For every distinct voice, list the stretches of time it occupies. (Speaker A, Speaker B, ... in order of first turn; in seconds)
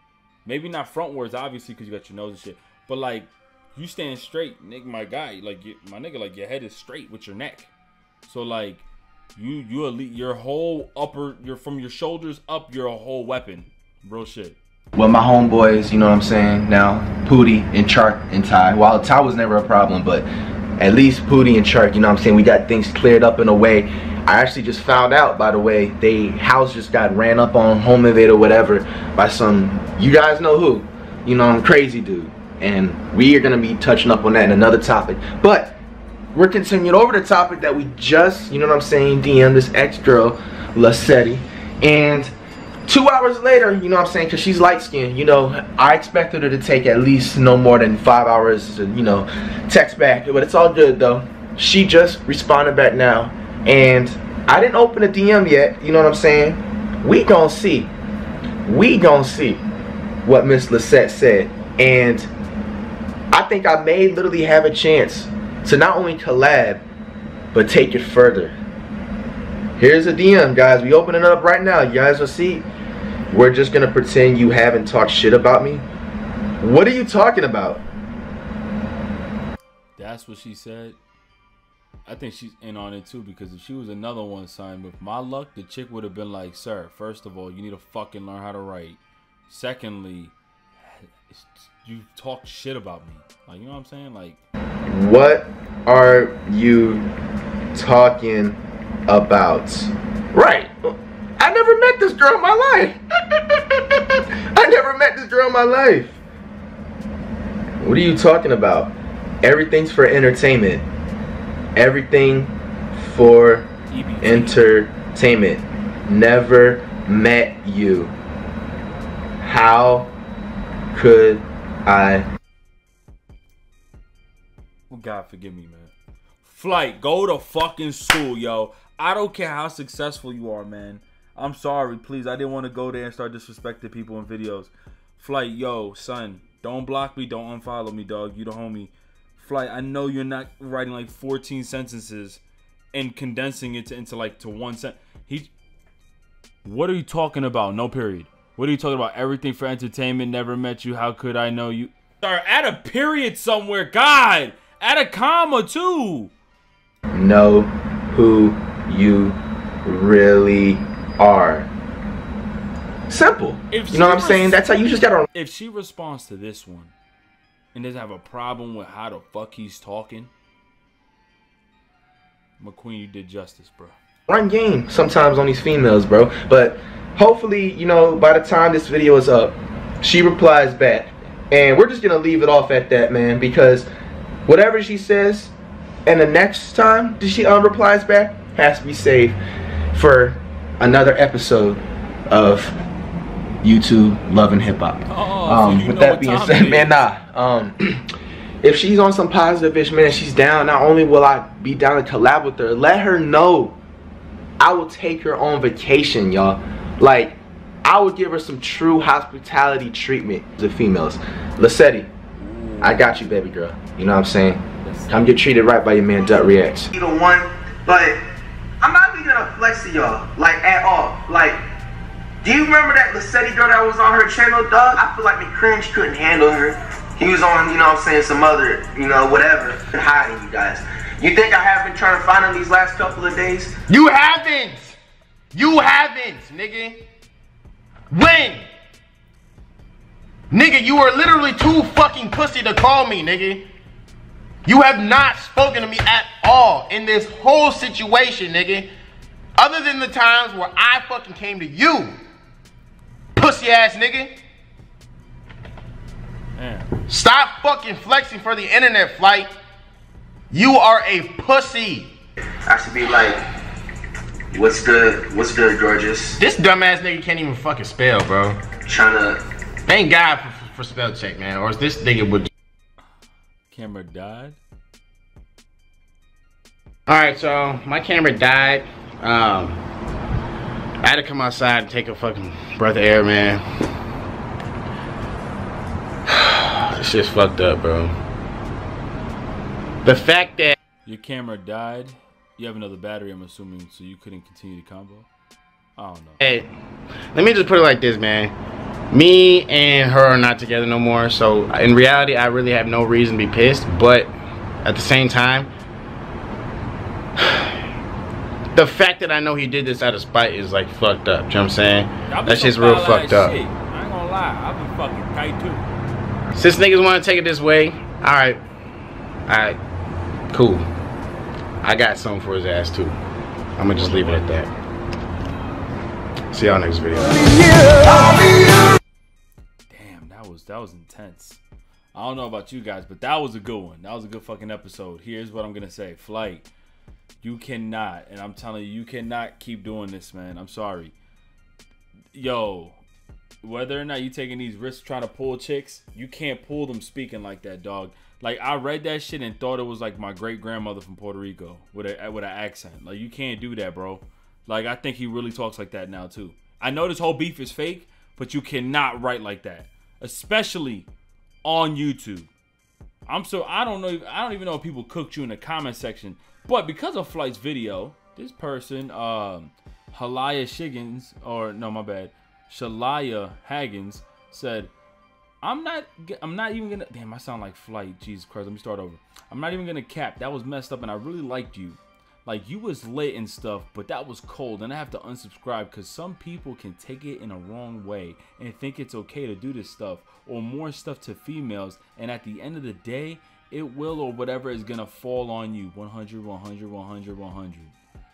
Speaker A: 0.5-7.7, 8.2-14.6, 80.0-81.0, 82.1-94.4, 113.9-114.7, 124.9-142.4, 142.9-145.5, 146.6-156.3, 163.7-164.6, 165.3-166.9, 167.7-170.3, 172.6-174.0, 195.1-197.0, 212.4-213.3, 214.8-215.4, 256.6-256.9, 273.7-274.6, 291.1-295.3, 296.0-296.4, 312.3-315.9, 323.9-324.7, 329.9-331.6, 332.1-336.7, 337.4-341.1, 342.3-343.0, 343.6-361.1, 361.6-362.5, 363.3-374.9, 375.6-397.9
Speaker B: 14.9-20.3, 20.8-35.8, 36.3-42.3, 42.9-57.9, 58.7-59.6, 60.3-62.3, 63.3-66.8, 67.5-68.5, 69.8-72.7, 73.3-75.9, 76.6-77.8, 94.9-97.1, 97.7-103.0, 104.5-106.2, 107.8-110.9, 111.8-113.7, 114.2-118.1, 119.4-120.1, 120.9-122.2, 157.1-161.7, 163.1-165.3, 174.3-183.9, 184.5-185.5, 186.1-189.4, 189.9-191.8, 192.3-192.7, 193.6-198.0, 198.6-203.8, 204.6-212.1, 212.8-218.2, 218.8-221.6, 222.4-233.7, 262.7-263.4, 264.5-266.4, 268.9-269.4
Speaker C: 233.9-235.0, 235.5-237.0, 238.1-238.7, 240.5-243.7, 244.7-248.9, 249.6-252.2, 253.4-254.3, 257.1-259.5, 260.5-262.1, 266.4-268.6, 269.9-272.5, 277.1-279.8, 281.0-283.6, 286.3-288.2, 290.1-290.8, 296.4-296.7, 297.3-298.5, 299.1-305.7, 307.4-307.7, 308.8-313.6, 316.6-318.6, 319.5-319.8, 320.5-320.9, 321.8-323.2, 323.8-324.7, 326.5-328.6